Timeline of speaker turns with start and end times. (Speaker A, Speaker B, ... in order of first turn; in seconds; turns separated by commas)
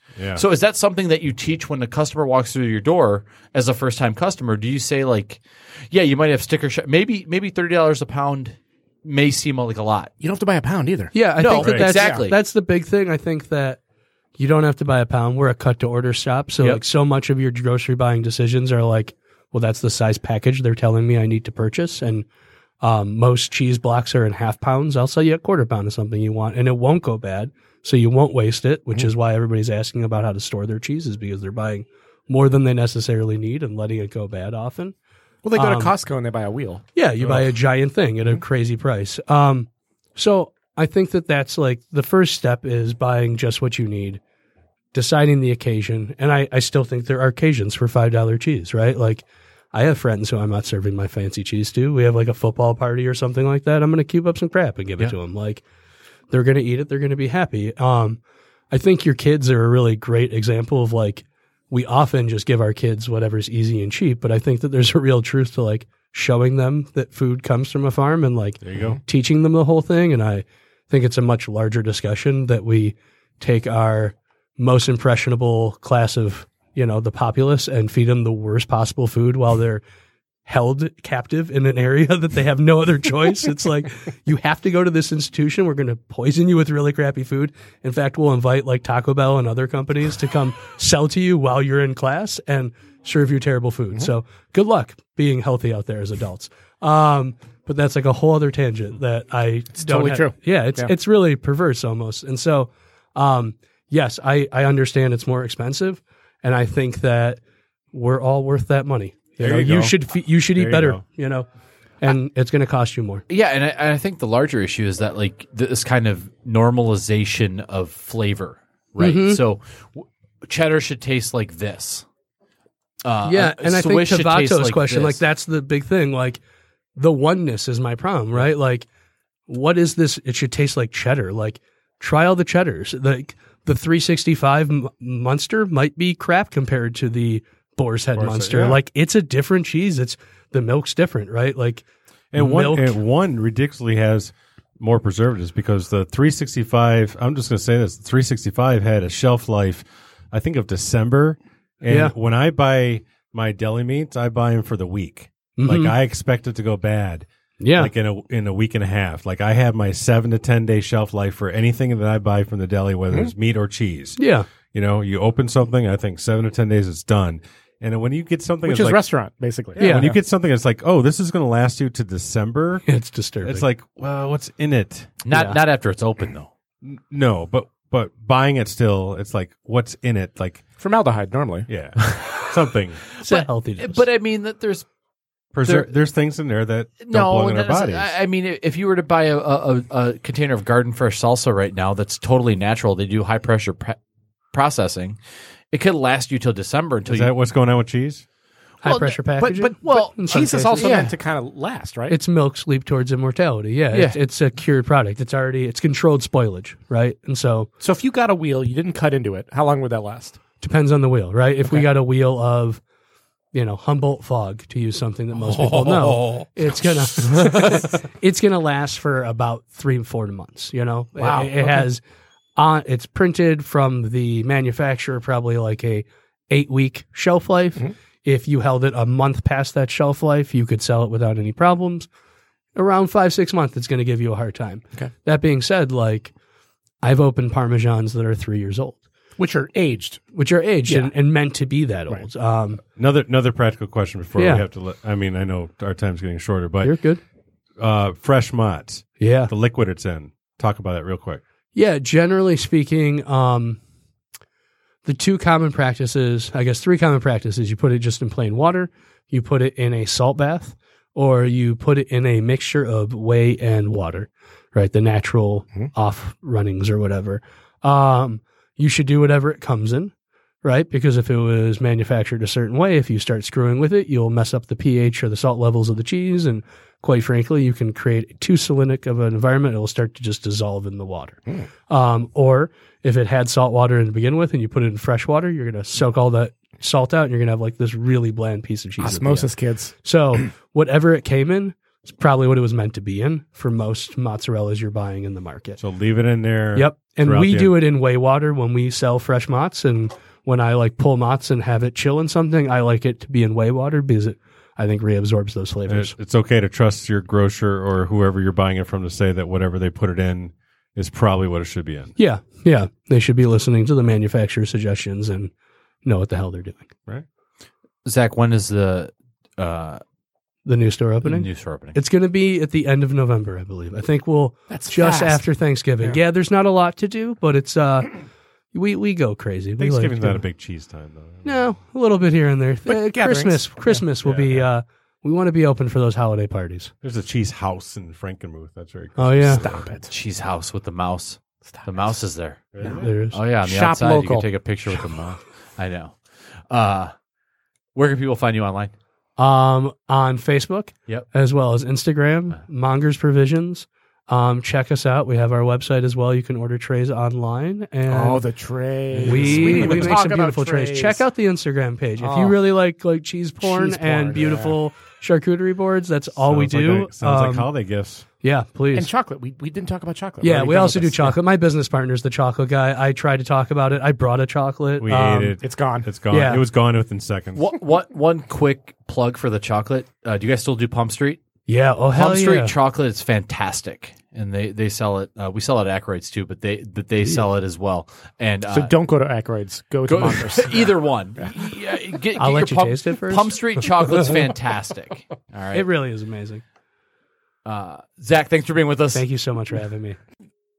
Speaker A: 0.2-0.4, Speaker B: 0.3-10.1, Speaker C: 10.2-11.1, Speaker D: 11.1-13.8, Speaker B: 11.4-12.4, Speaker A: 11.6-11.9, Speaker C: 11.9-12.3, Speaker D: 14.4-22.3, Speaker D: 22.8-35.0, Speaker C: 35.4-36.8, Speaker D: 35.5-35.9, Speaker D: 37.0-44.2, Speaker A: 37.2-37.5, Speaker D: 44.9-55.6, Speaker D: 56.3-79.8, Speaker A: 68.6-69.0, Speaker D: 80.5-107.4, Speaker C: 99.8-100.9, Speaker D: 107.9-111.5, Speaker A: 109.4-111.0, Speaker D: 112.0-113.2, Speaker B: 113.3-122.1, Speaker D: 119.0-119.4, Speaker B: 123.0-125.2, Speaker D: 123.2-126.4, Speaker D: 127.0-128.9, Speaker D: 129.5-141.8, Speaker A: 138.2-138.8, Speaker A: 142.3-164.2, Speaker D: 142.3-143.0, Speaker D: 151.9-152.1, Speaker D: 155.6-155.9, Speaker D: 157.6-157.9, Speaker D: 164.2-164.5, Speaker A: 164.7-169.1, Speaker C: 168.7-170.1, Speaker D: 169.8-170.2, Speaker A: 169.8-172.8, Speaker D: 172.9-173.7, Speaker A: 173.4-175.2, Speaker B: 175.2-176.5, Speaker D: 175.3-175.6, Speaker A: 176.8-180.7, Speaker C: 180.8-181.7, Speaker A: 181.7-183.0, Speaker D: 183.2-184.1, Speaker B: 183.2-184.9, Speaker A: 185.5-188.1, Speaker B: 185.6-185.9, Speaker B: 187.0-194.0, Speaker B: 194.5-195.2, Speaker B: 195.7-197.3, Speaker A: 197.1-198.2, Speaker D: 198.8-201.0, Speaker C: 198.9-202.2, Speaker B: 199.9-201.2, Speaker D: 202.1-207.7, Speaker B: 203.9-204.2, Speaker C: 207.8-210.4, Speaker D: 210.6-212.8, Speaker D: 213.5-222.0, Speaker C: 221.2-221.9, Speaker D: 222.6-232.1, Speaker D: 232.8-236.3, Speaker D: 237.0-239.0, Speaker C: 239.4-240.2, Speaker D: 240.3-242.8, Speaker C: 240.9-241.1, Speaker A: 242.9-247.0, Speaker D: 244.4-244.7, Speaker D: 246.8-247.2, Speaker A: 247.8-251.4, Speaker D: 249.2-249.5, Speaker D: 251.8-253.8, Speaker D: 255.1-270.1, Speaker D: 270.6-289.5, Speaker C: 289.0-289.9, Speaker D: 290.0-295.8, Speaker A: 295.8-297.8, Speaker D: 296.8-306.1, Speaker A: 305.9-312.1, Speaker D: 312.2-315.5, Speaker D: 316.0-316.9, Speaker B: 318.1-320.0, Speaker D: 320.6-328.1, Speaker B: 321.2-322.0, Speaker C: 324.7-325.5, Speaker D: 328.7-330.4, Speaker A: 329.8-331.6, Speaker D: 331.4-336.9, Speaker C: 332.9-334.0, Speaker A: 334.2-334.7, Speaker A: 337.0-339.8, Speaker D: 339.2-339.6, Speaker C: 339.5-340.1, Speaker B: 340.1-347.1, Speaker A: 342.7-343.1, Speaker D: 342.9-343.4, Speaker C: 343.6-345.1, Speaker B: 347.9-348.9, Speaker D: 349.4-358.4, Speaker C: 358.1-361.2, Speaker D: 359.2-367.7, Speaker B: 359.5-359.9, Speaker C: 362.2-362.6, Speaker C: 363.6-364.8, Speaker A: 366.4-368.3, Speaker D: 368.4-369.1, Speaker C: 368.9-371.4, Speaker D: 370.4-375.6, Speaker A: 375.0-377.7, Speaker C: 375.6-376.1, Speaker D: 376.3-376.6, Speaker B: 377.6-381.4, Speaker D: 381.7-382.7, Speaker B: 382.1-388.9, Speaker C: 388.7-391.5, Speaker B: 390.1-395.9, Speaker D: 392.4-394.4, Speaker D: 395.7-396.6, Speaker B: 397.6-399.2, Speaker D: 399.1-400.2